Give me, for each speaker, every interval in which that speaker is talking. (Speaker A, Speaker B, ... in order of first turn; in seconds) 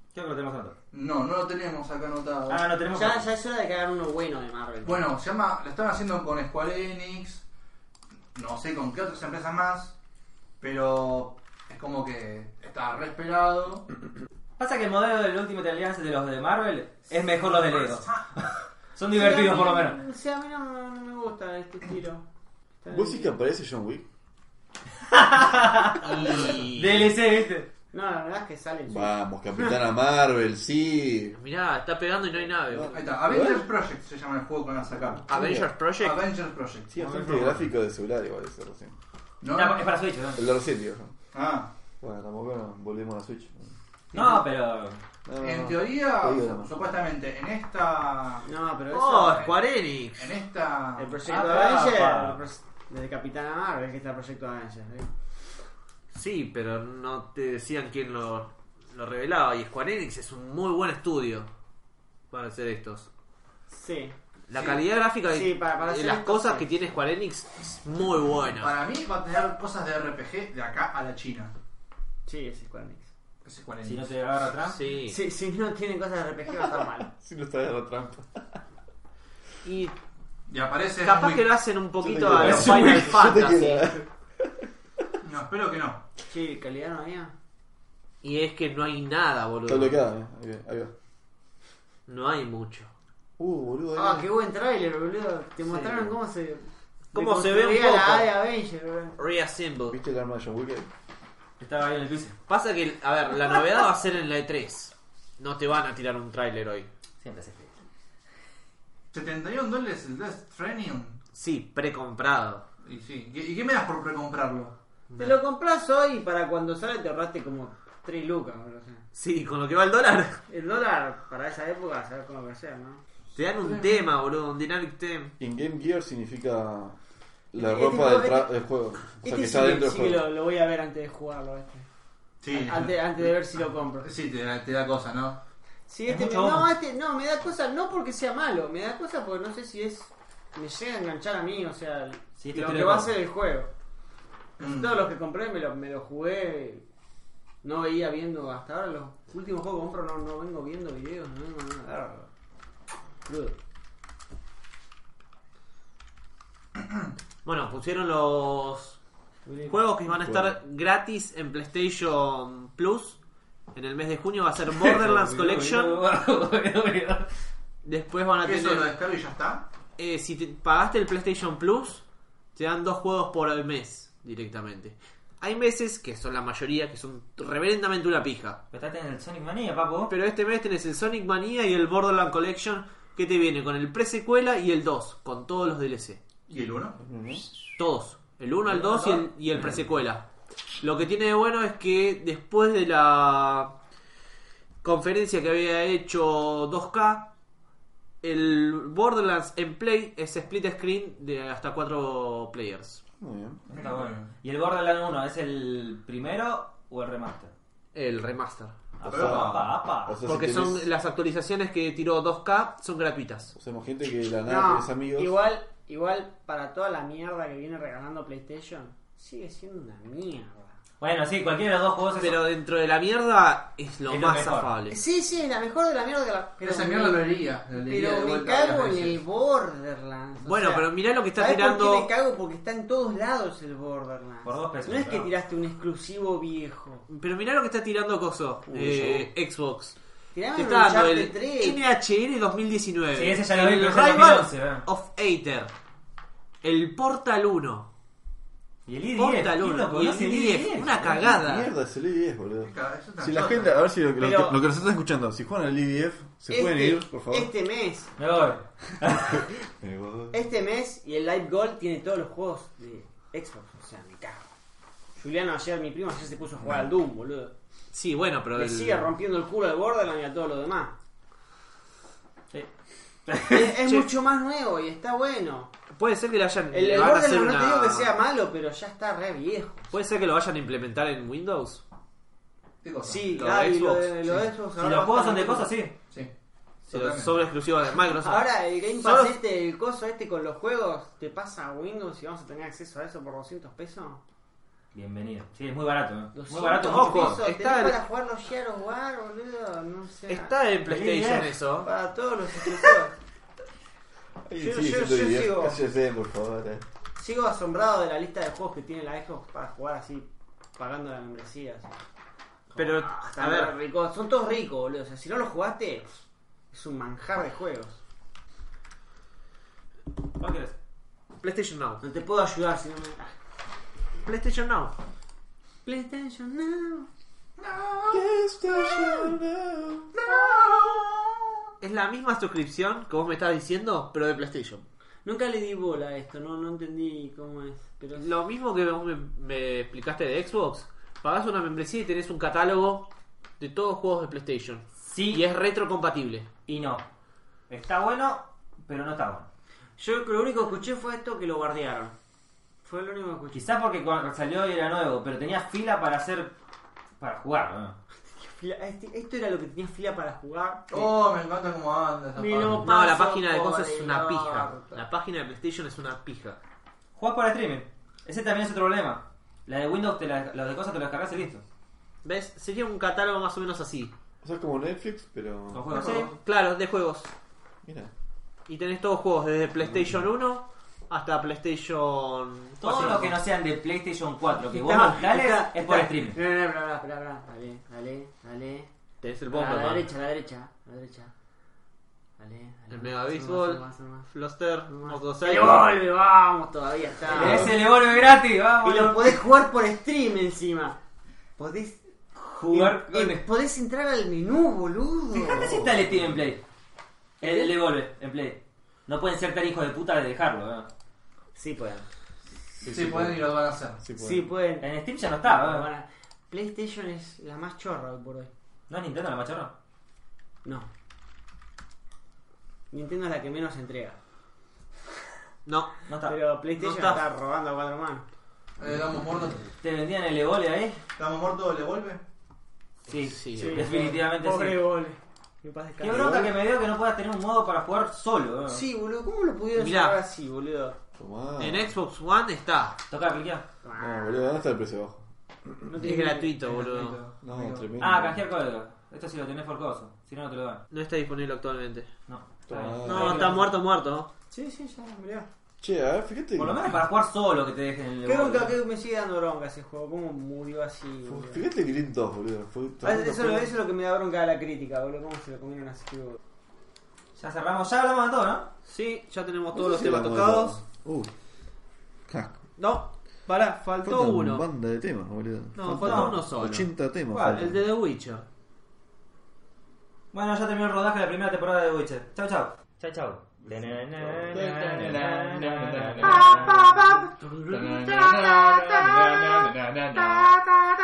Speaker A: 0.1-0.7, 2.5-3.2, 14.6-18.4, 18.9-20.0, 25.1-27.7, 39.5-40.5, 44.1-45.0, 51.2-52.4, 73.8-74.8, 101.6-102.3, 107.2-107.7, 136.1-136.7, 142.4-143.1, 164.7-167.3, 178.7-180.1, 188.7-189.3, 203.7-207.5, 209.0-210.2, 221.0-222.4, 224.1-224.7, 234.4-235.3, 243.1-244.8, 248.9-251.0, 258.2-259.4, 273.3-273.7, 284.8-285.9, 294.9-297.4, 300.8-301.5, 320.4-320.7, 345.0-345.4, 346.6-347.0, 347.7-349.5, 353.5-356.5, 357.2-357.9, 367.1-371.6, 375.7-376.3, 382.8-386.4, 397.3-399.4, 402.4-403.4, 405.3-406.6, 407.4-410.9, 414.8-415.9, 418.9-419.7, 426.1-426.4, 429.8-431.0, 433.1-434.8, 436.0-438.8, 443.1-443.6, 448.0-450.8, 452.3-453.7, 456.6-458.8, 467.4-468.7, 475.9-476.3, 477.3-477.6, 480.3-486.8
Speaker B: 0.9-2.7, 4.8-7.4, 8.3-9.9, 10.6-13.9, 17.4-18.4, 32.9-35.3, 35.9-37.5, 39.4-39.9, 41.3-41.7, 45.4-48.5, 50.1-51.2, 64.5-64.8, 68.6-71.5, 73.4-74.1, 80.5-81.5, 85.2-86.0, 109.1-111.2, 112.8-114.7, 123.6-124.0, 132.4-135.4, 144.6-145.0, 168.4-169.6, 186.5-187.0, 203.7-204.3, 209.0-209.7, 226.6-229.2, 252.6-253.8, 282.8-283.2, 286.8-287.4, 327.6-328.3, 328.9-329.3, 330.1-331.0, 360.9-362.9, 412.8-414.0, 428.8-429.6, 431.2-432.2, 446.6-447.9, 484.5-487.1, 487.7-490.9
Speaker C: 2.9-5.1, 19.1-22.2, 22.8-23.3, 27.9-29.7, 48.5-49.5, 51.0-55.1, 63.7-64.1, 65.3-66.6, 72.3-73.1, 75.1-77.1, 86.3-87.3, 93.9-99.1, 115.2-119.0, 120.5-123.0, 127.5-128.5, 129.2-131.8, 132.5-134.1, 135.9-143.7, 144.6-146.8, 147.6-152.3, 153.2-153.6, 159.4-159.8, 214.4-220.7, 224.9-237.1, 240.3-241.8, 254.2-254.6, 256.5-258.1, 260.3-264.5, 265.2-267.5, 268.6-270.9, 273.4-275.7, 276.7-279.9, 283.0-285.7, 288.2-294.2, 296.3-300.5, 301.8-303.1, 304.6-305.8, 307.1-311.9, 312.7-316.1, 316.7-318.0, 322.0-323.3, 325.8-327.1, 330.3-331.0, 335.2-338.3, 350.0-352.1, 352.8-353.7, 358.4-361.1, 362.4-365.0, 384.6-388.9, 389.5-391.3, 392.4-394.3, 394.9-397.9, 398.8-401.0, 401.6-402.0, 402.7-405.9, 407.4-407.7, 411.5-412.1, 414.1-414.9, 415.4-418.5, 422.9-424.2, 426.2-428.2, 433.5-436.5, 438.7-441.0, 443.8-444.5, 445.9-446.8, 454.5-455.5, 458.2-461.6, 463.0-466.4, 486.8-487.2
Speaker D: 22.9-24.1, 28.9-31.4, 32.7-33.6, 35.0-35.7, 36.9-39.0, 40.4-41.1, 42.0-43.7, 45.2-46.7, 77.0-78.5, 82.0-85.1, 89.7-90.9, 93.4-94.3, 99.9-100.9, 125.4-127.0, 127.5-130.3, 160.2-160.6, 187.0-187.4, 203.2-203.6, 210.1-210.9, 213.5-215.3, 238.7-239.3, 251.0-257.5, 259.3-260.4, 304.4-306.8, 328.1-330.1, 374.4-375.8, 377.8-378.1, 379.9-380.2, 412.8-414.5, 436.1-436.5, 441.2-441.9, 444.0-445.9, 447.4-448.4, 452.7-453.7, 455.8-457.0, 461.3-463.7, 469.7-471.3, 472.3-472.6, 474.0-477.8, 484.2-484.5
Speaker E: 26.0-27.1, 31.4-33.0, 35.3-36.2, 48.9-50.3, 56.1-61.5, 62.3-63.1, 64.5-68.7, 74.6-75.2, 79.6-79.9, 81.0-83.9, 88.2-90.0, 92.1-92.9, 97.1-98.3, 99.2-100.0, 102.5-106.9, 111.3-112.7, 115.1-115.4, 119.1-120.4, 123.3-125.3, 157.4-159.0, 159.7-163.2, 163.7-166.0, 167.8-168.9, 170.0-172.0, 172.5-178.6, 180.1-186.2, 187.8-190.2, 190.8-193.7, 194.8-197.3, 198.2-203.0, 207.9-208.7, 210.2-213.5, 222.2-225.0, 230.4-232.1, 237.1-239.9, 240.5-245.7, 246.6-247.9, 249.2-251.7, 267.9-269.1, 275.9-278.1, 279.9-281.8, 283.3-284.4, 286.9-289.4, 296.6-298.0, 300.3-301.9, 312.8-313.8, 321.4-322.0, 324.2-324.9, 331.8-334.8, 338.1-343.1, 343.6-346.5, 362.8-366.6, 372.2-374.1, 375.9-377.3, 378.7-383.4, 389.2-390.1, 392.9-395.9, 425.6-426.0, 426.8-427.2, 433.1-433.9, 439.7-440.2, 441.6-443.0, 446.0-447.2, 450.9-452.1, 453.1-454.3, 468.9-470.8, 472.8-474.6, 475.8-476.9, 477.4-478.4